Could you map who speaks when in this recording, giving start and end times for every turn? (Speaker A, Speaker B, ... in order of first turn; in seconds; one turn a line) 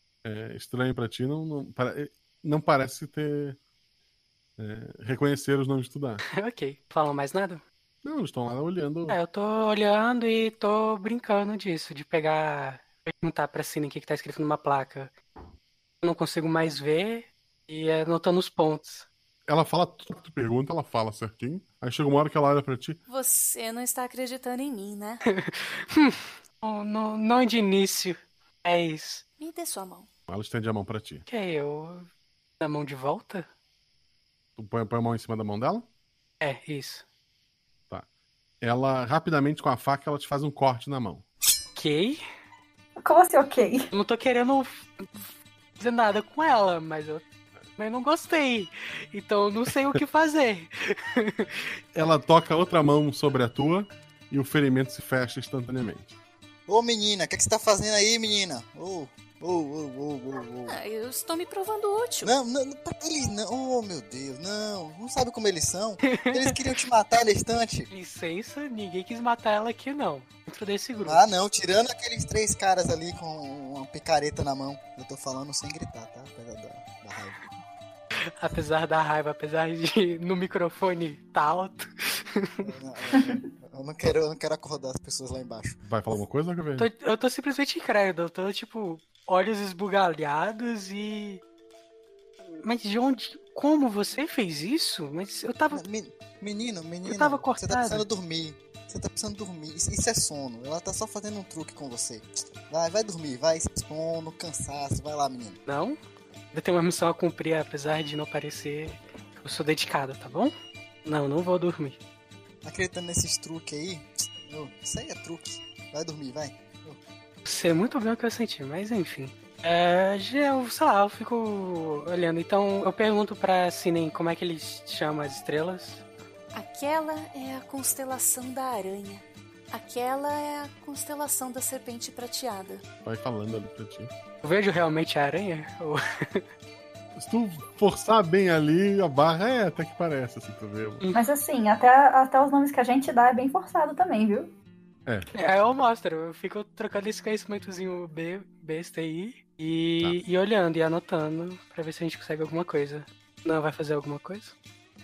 Speaker A: 0.2-3.6
Speaker A: 4.6-6.2
Speaker B: 6.3-7.6
Speaker A: 8.0-9.2
Speaker B: 9.1-15.1
Speaker B: 16.0-19.1
Speaker A: 19.5-23.0
Speaker C: 23.1-25.2
Speaker B: 25.3-29.2
Speaker C: 29.4-30.1
Speaker A: 30.3-31.2
Speaker B: 31.3-32.1
Speaker B: 32.6-33.5
Speaker A: 34.6-35.9
Speaker B: 36.4-37.0
Speaker A: 38.6-41.2
Speaker B: 41.7-42.2
Speaker D: 43.0-43.9
Speaker B: 43.9-47.2
Speaker B: 47.8-51.6
Speaker A: 51.9-56.1
Speaker E: 56.7-60.8
Speaker C: 60.6-62.3
Speaker E: 62.2-67.9
Speaker B: 66.1-66.5
Speaker B: 67.9-71.2
Speaker E: 71.0-77.4
Speaker B: 78.4-82.7
Speaker E: 82.6-86.2
Speaker A: 85.9-86.9
Speaker B: 86.8-91.4
Speaker B: 92.5-95.8
Speaker E: 95.7-105.6
Speaker B: 97.0-98.0
Speaker B: 105.7-106.0
Speaker B: 106.5-110.5
Speaker B: 111.0-112.0
Speaker E: 112.6-117.0
Speaker B: 117.4-126.0
Speaker C: 126.5-132.8
Speaker A: 133.0-134.1
Speaker B: 134.4-136.4
Speaker A: 137.2-141.0
Speaker D: 141.1-144.5
Speaker B: 145.3-154.5